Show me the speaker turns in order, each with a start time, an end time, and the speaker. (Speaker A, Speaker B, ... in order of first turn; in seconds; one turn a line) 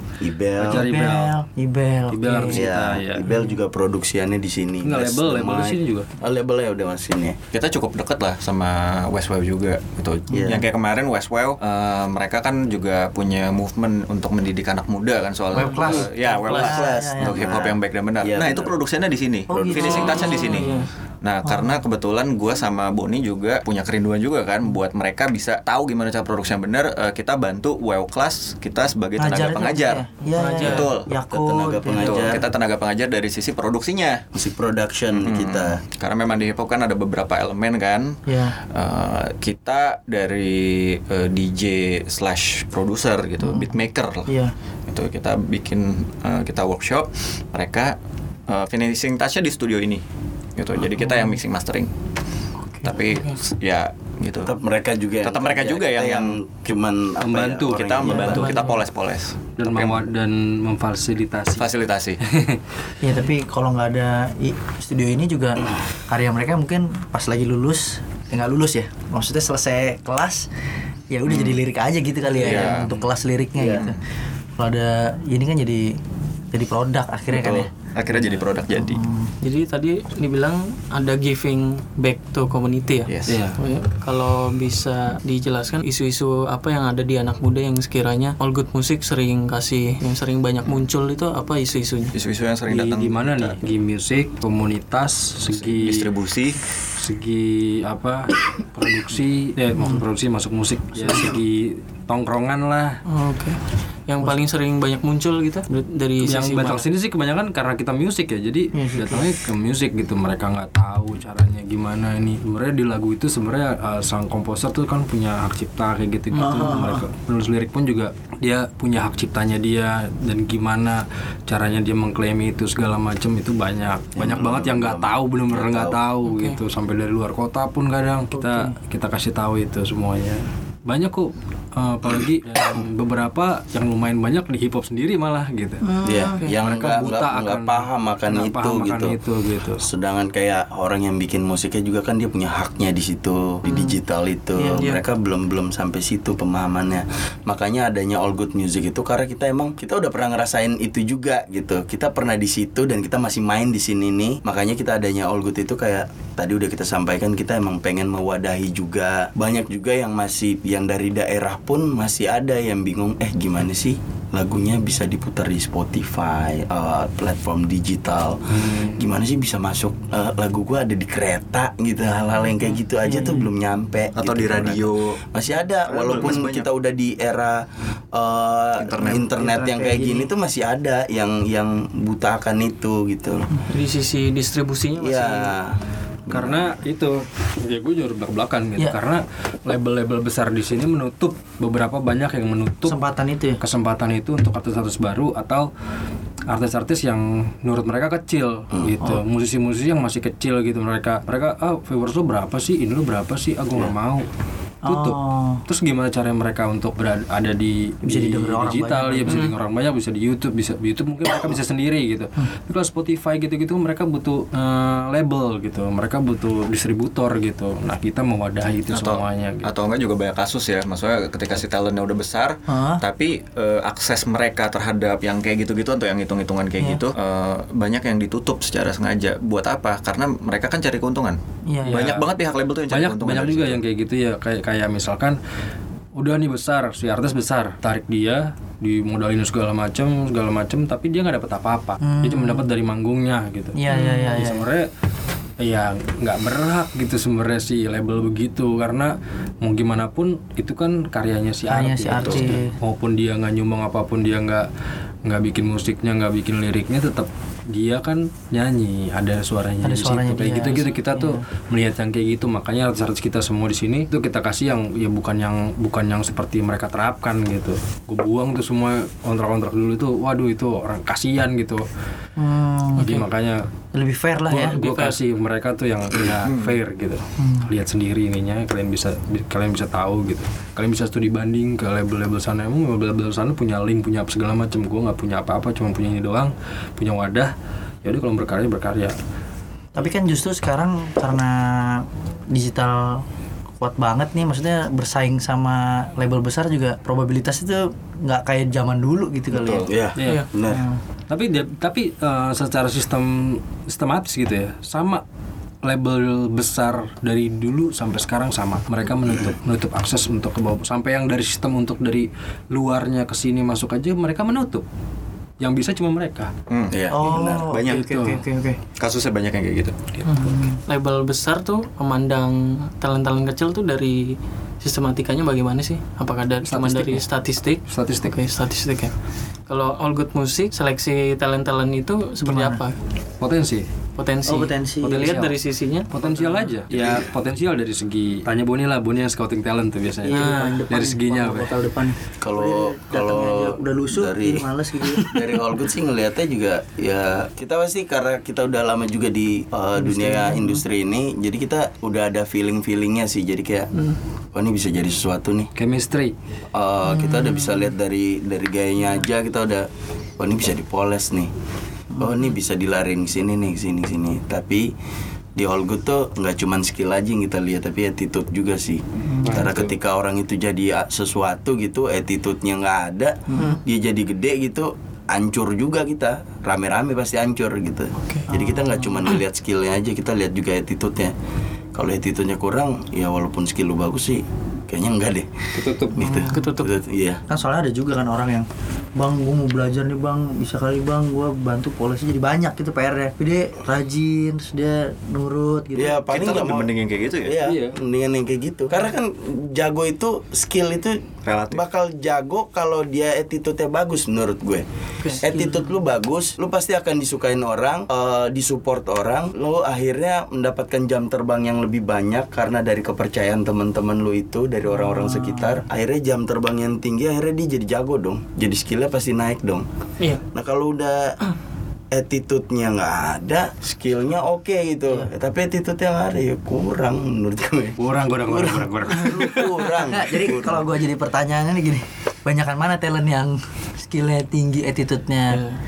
Speaker A: 0.2-0.9
Speaker B: 0.6-1.3
Speaker C: 0.7-2.8
Speaker B: 2.1-3.2
Speaker A: 2.5-7.4
Speaker C: 3.3-3.6
Speaker B: 4.8-6.1
Speaker D: 7.5-30.1
Speaker A: 10.3-10.7
Speaker C: 10.3-10.6
Speaker C: 15.5-17.5
Speaker E: 15.6-16.1
Speaker A: 16.4-18.7
Speaker C: 19.5-20.8
Speaker A: 19.5-20.6
Speaker E: 19.9-20.9
Speaker C: 21.4-21.8
Speaker C: 29.2-32.4
Speaker E: 30.4-30.9
Speaker D: 30.6-31.1
Speaker A: 31.3-32.4
Speaker D: 32.0-34.2
Speaker A: 34.3-35.8
Speaker D: 35.1-44.4
Speaker C: 38.2-38.6
Speaker C: 43.4-44.5
Speaker D: 44.9-48.0
Speaker D: 48.5-50.0
Speaker D: 50.5-51.9
Speaker C: 51.0-51.4
Speaker C: 52.7-52.9
Speaker D: 52.8-54.5
Speaker E: 53.0-53.4
Speaker A: 54.4-58.5
Speaker D: 55.2-56.4
Speaker B: 57.2-58.0
Speaker D: 57.7-60.0
Speaker E: 58.0-58.8
Speaker B: 59.6-61.7
Speaker D: 61.6-62.2
Speaker B: 62.3-62.6
Speaker C: 63.0-70.5
Speaker C: 71.1-74.0
Speaker D: 71.3-71.6
Speaker D: 72.4-73.0
Speaker A: 73.6-73.8
Speaker C: 74.6-76.0
Speaker C: 76.5-77.7
Speaker D: 77.3-79.0
Speaker C: 78.7-79.3
Speaker E: 79.4-92.2
Speaker D: 83.1-83.4
Speaker B: 83.3-83.6
Speaker D: 92.1-93.6
Speaker B: 92.7-96.1
Speaker D: 95.6-96.6
Speaker B: 97.0-103.0
Speaker C: 99.7-100.0
Speaker E: 103.0-106.8
Speaker B: 106.2-135.9
Speaker C: 108.7-109.3
Speaker C: 116.3-117.0
Speaker A: 124.2-126.0
Speaker E: 126.2-126.6
Speaker C: 128.3-128.8
Speaker C: 135.8-136.4
Speaker A: 136.0-139.2
Speaker B: 136.6-139.8
Speaker A: 139.8-183.5
Speaker E: 143.7-143.9
Speaker E: 144.6-145.0
Speaker B: 168.5-169.0
Speaker C: 173.0-173.5
Speaker D: 174.2-175.2
Speaker D: 175.8-176.7
Speaker D: 178.8-179.3
Speaker C: 179.0-180.3
Speaker E: 183.6-185.5
Speaker A: 185.0-185.8
Speaker A: 186.3-186.7
Speaker B: 186.3-193.0
Speaker C: 192.8-193.6
Speaker B: 193.6-195.7
Speaker B: 196.5-204.3
Speaker C: 204.8-205.6
Speaker B: 204.8-219.7
Speaker C: 208.0-209.4
Speaker E: 209.3-209.5
Speaker D: 218.9-233.8
Speaker C: 222.7-223.0
Speaker C: 231.7-232.2
Speaker B: 231.8-232.3
Speaker B: 232.9-235.4
Speaker B: 236.1-244.9
Speaker C: 242.0-242.7
Speaker C: 243.7-244.7
Speaker E: 243.9-244.3
Speaker B: 245.6-254.7
Speaker C: 251.7-252.7
Speaker B: 255.2-271.8
Speaker C: 259.8-261.4
Speaker C: 272.4-273.2
Speaker B: 273.0-273.7
Speaker C: 273.9-274.8
Speaker B: 274.5-287.5
Speaker E: 274.7-275.2
Speaker D: 276.4-276.8
Speaker C: 277.4-277.7
Speaker B: 288.0-289.2
Speaker C: 289.9-293.2
Speaker C: 293.8-299.9
Speaker A: 299.5-300.9
Speaker B: 300.2-300.5
Speaker E: 300.2-300.5
Speaker C: 300.7-301.0
Speaker B: 301.3-305.2
Speaker B: 305.8-314.8
Speaker B: 315.6-316.5
Speaker D: 316.7-316.9
Speaker A: 316.9-318.1
Speaker C: 317.1-318.8
Speaker B: 318.0-318.4
Speaker D: 319.0-319.9
Speaker E: 320.2-329.1
Speaker C: 320.4-320.8
Speaker B: 326.6-327.3
Speaker B: 327.9-328.3
Speaker E: 329.7-333.0
Speaker C: 332.4-332.8
Speaker B: 333.4-333.9
Speaker E: 334.2-336.7
Speaker C: 334.4-335.4
Speaker B: 335.0-335.6
Speaker B: 336.1-341.7
Speaker A: 336.9-337.2
Speaker C: 340.2-345.6
Speaker E: 340.3-340.8
Speaker A: 342.4-344.7
Speaker A: 345.2-353.9
Speaker C: 350.0-350.8
Speaker A: 354.5-355.7
Speaker B: 355.7-356.3
Speaker A: 356.7-359.9
Speaker C: 357.0-357.9
Speaker A: 360.4-361.5
Speaker C: 362.1-362.4
Speaker A: 362.2-364.9
Speaker A: 365.5-381.3
Speaker C: 369.2-369.7
Speaker B: 369.4-369.9
Speaker C: 373.5-373.8
Speaker E: 373.5-373.8
Speaker C: 378.5-379.3
Speaker A: 381.9-385.5
Speaker B: 385.7-386.3
Speaker A: 386.1-387.4
Speaker C: 386.2-386.6
Speaker E: 386.5-386.9
Speaker C: 387.5-396.2
Speaker A: 395.9-396.9
Speaker D: 396.3-397.6
Speaker A: 397.4-404.8
Speaker B: 397.6-398.0
Speaker D: 401.4-401.8
Speaker E: 405.2-405.7
Speaker A: 405.4-419.9
Speaker C: 414.8-415.8
Speaker A: 420.5-421.4
Speaker A: 422.1-430.8
Speaker B: 428.0-429.7
Speaker C: 430.1-435.6
Speaker E: 435.5-435.8